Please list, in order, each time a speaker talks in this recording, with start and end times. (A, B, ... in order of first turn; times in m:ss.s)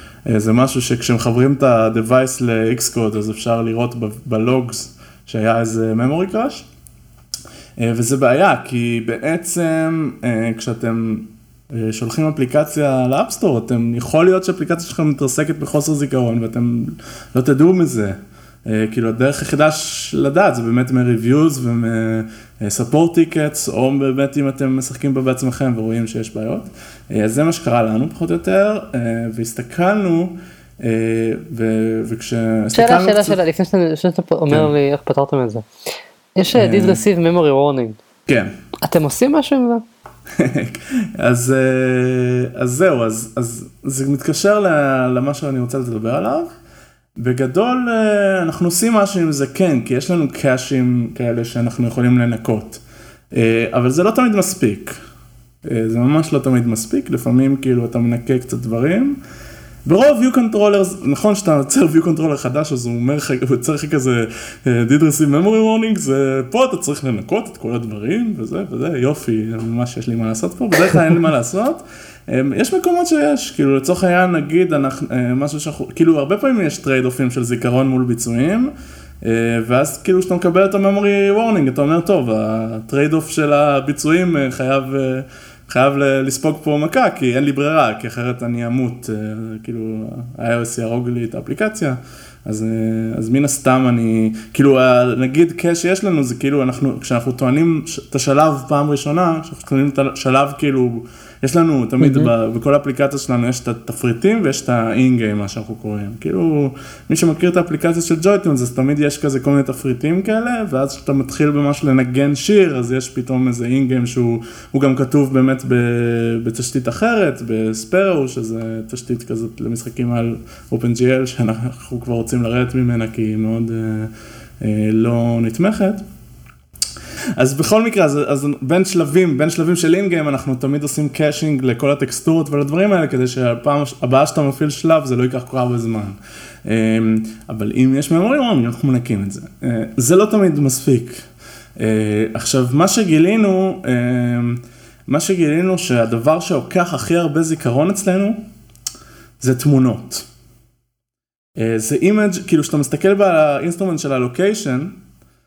0:00.3-0:06.7 A
0:07.8-0:33.4 A
0:32.7-0:35.7 B
0:36.4-0:38.0 B
0:36.5-0:37.0 A
0:38.3-0:38.5 A
0:38.8-0:39.8 B
0:40.4-0:46.5 A
0:47.2-0:52.8 A
0:53.3-0:55.0 A
0:55.6-0:59.2 A
0:59.8-2:06.0 A
1:42.0-1:42.3 B
2:07.4-2:21.3 A
2:21.8-2:28.4 A
2:29.4-2:30.3 A
2:31.6-2:35.0 A